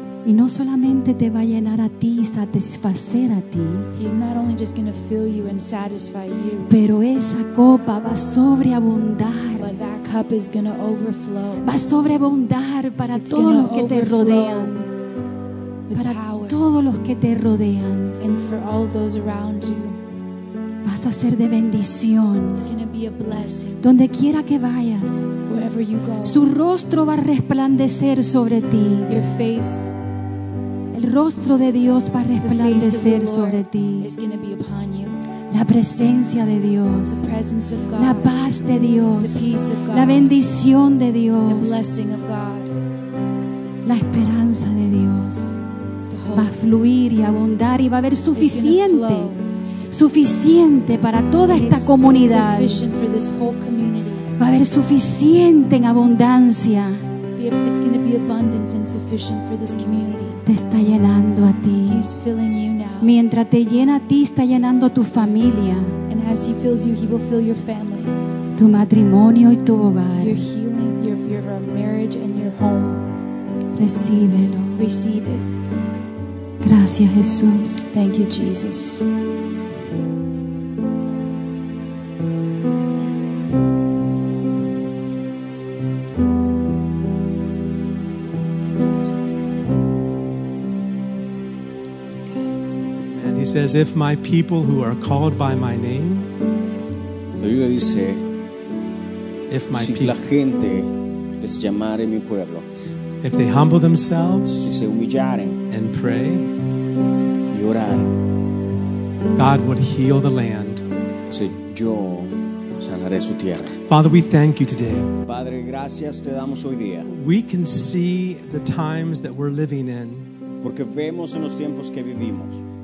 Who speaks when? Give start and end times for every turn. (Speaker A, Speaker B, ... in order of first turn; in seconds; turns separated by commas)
Speaker A: 0.2-3.9, Speaker B: 3.9-6.8, Speaker A: 6.7-9.8, Speaker B: 9.6-11.8, Speaker A: 11.6-14.9, Speaker B: 13.1-14.7, Speaker B: 15.9-16.6, Speaker A: 15.9-18.2, Speaker B: 18.2-20.0, Speaker A: 20.8-22.7, Speaker B: 22.5-23.8, Speaker A: 23.8-25.4, Speaker B: 25.4-26.4, Speaker A: 26.2-29.1, Speaker B: 29.1-29.9, Speaker A: 30.9-34.1, Speaker B: 32.4-35.2, Speaker A: 35.5-37.3, Speaker B: 37.1-38.4, Speaker A: 38.0-41.8, Speaker B: 39.2-40.3, Speaker B: 41.5-42.7, Speaker A: 43.8-45.6, Speaker B: 46.1-46.6, Speaker A: 46.3-49.3, Speaker B: 48.3-49.4, Speaker A: 49.9-52.9, Speaker B: 51.5-54.3, Speaker A: 54.4-57.1, Speaker B: 57.3-60.4, Speaker A: 60.4-62.0, Speaker B: 61.8-63.1, Speaker A: 63.0-66.0, Speaker B: 66.1-68.2, Speaker A: 68.5-70.4, Speaker B: 70.2-73.1, Speaker A: 73.7-74.8, Speaker B: 74.8-75.5, Speaker A: 76.6-77.9, Speaker B: 77.9-79.1, Speaker B: 92.2-92.6, Speaker C: 93.1-96.3, Speaker D: 97.4-98.2, Speaker C: 99.5-100.2, Speaker D: 99.7-102.7, Speaker C: 103.2-104.7, Speaker D: 104.6-105.6, Speaker C: 105.7-106.5, Speaker D: 107.5-108.1, Speaker C: 109.3-110.8, Speaker D: 111.3-113.8, Speaker C: 113.9-115.1, Speaker D: 115.2-117.1, Speaker C: 117.0-120.3, Speaker D: 120.6-122.6